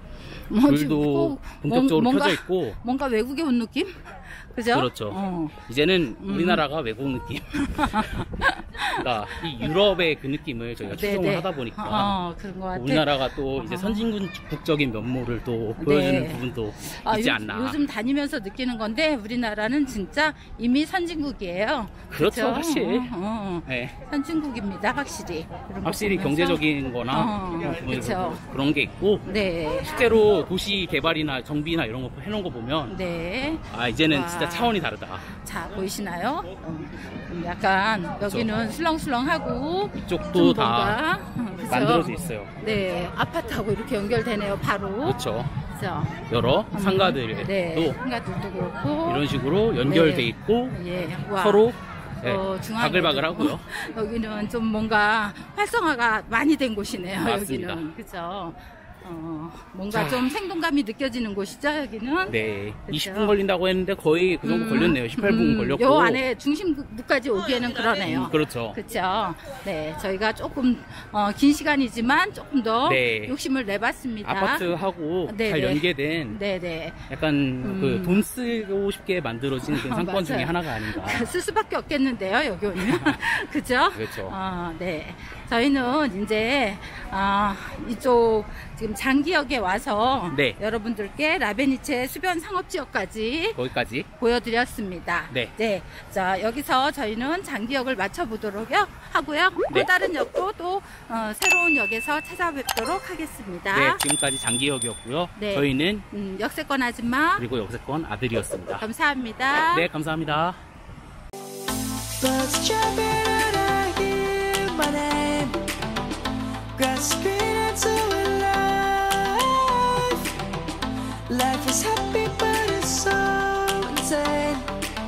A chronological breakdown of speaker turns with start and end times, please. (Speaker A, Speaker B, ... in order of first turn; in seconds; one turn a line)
Speaker A: 0.5-5.6
Speaker B: 0.6-2.8
Speaker B: 4.7-8.1
Speaker A: 6.2-6.7
Speaker A: 7.8-9.7
Speaker B: 8.8-12.2
Speaker A: 10.9-14.1
Speaker B: 12.7-17.8
Speaker A: 15.8-28.4
Speaker B: 22.1-23.1
Speaker B: 23.7-23.9
Speaker B: 25.8-29.3
Speaker A: 29.2-30.1
Speaker B: 29.8-33.0
Speaker A: 32.9-34.8
Speaker B: 33.7-35.3
Speaker A: 35.3-46.2
Speaker B: 38.2-38.5
Speaker B: 40.0-41.0
Speaker B: 41.7-42.5
Speaker B: 45.0-45.5
Speaker B: 46.3-48.0
Speaker A: 46.7-49.3
Speaker B: 49.1-50.8
Speaker A: 49.8-51.7
Speaker B: 51.4-53.6
Speaker A: 52.2-63.4
Speaker B: 57.2-57.9
Speaker B: 59.9-60.4
Speaker B: 62.3-66.2
Speaker A: 64.4-74.8
Speaker B: 67.9-68.8
Speaker B: 72.9-73.4
Speaker B: 74.2-76.4
Speaker A: 75.3-77.1
Speaker B: 77.1-81.3
Speaker A: 77.6-78.2
Speaker A: 79.7-93.6
Speaker B: 82.8-83.2
Speaker B: 83.9-84.4
Speaker B: 90.3-90.6
Speaker B: 93.6-94.1
Speaker A: 94.2-104.0
Speaker B: 103.7-106.1
Speaker A: 105.4-107.5
Speaker B: 107.4-108.9
Speaker A: 108.8-109.9
Speaker B: 109.7-110.6
Speaker C: 112.2-115.6
Speaker C: 116.8-120.3
Speaker C: 121.3-124.7